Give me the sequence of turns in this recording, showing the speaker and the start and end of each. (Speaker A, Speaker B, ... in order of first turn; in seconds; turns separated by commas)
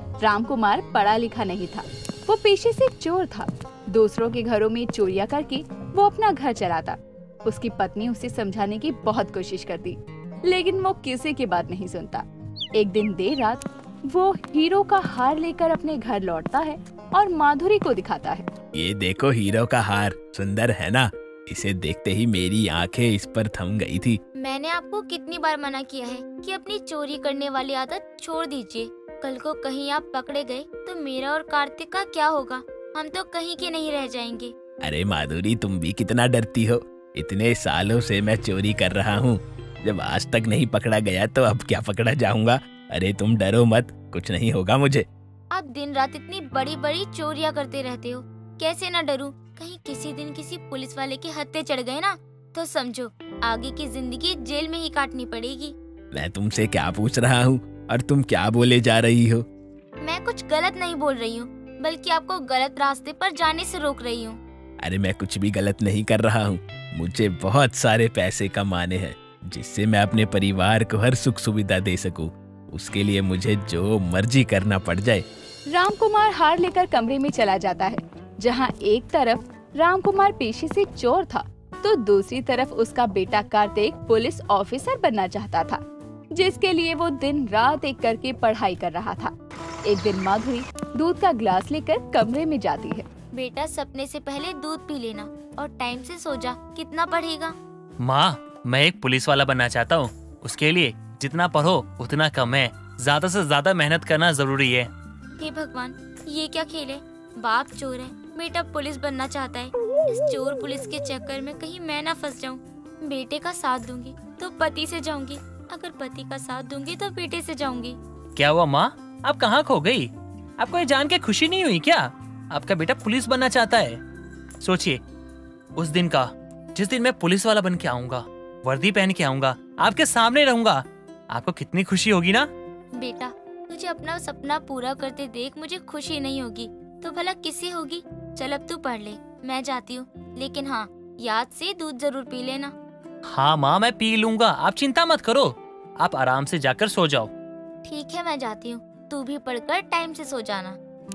Speaker A: 0.2-18.5, Speaker B: 18.7-24.2, Speaker C: 24.4-34.5, Speaker B: 34.8-45.1, Speaker C: 45.5-55.8, Speaker B: 56.1-59.5, Speaker C: 60.0-64.4, Speaker B: 64.8-75.3, Speaker A: 75.7-85.8, Speaker A: 86.3-89.3, Speaker A: 89.8-93.1, Speaker C: 93.3-97.5, Speaker D: 98.0-104.9, Speaker C: 105.4-118.0, Speaker D: 118.4-124.0, Speaker D: 124.6-125.0, Speaker D: 125.8-132.5, Speaker C: 133.0-142.7, Speaker D: 143.3-147.3, Speaker C: 147.8-150.8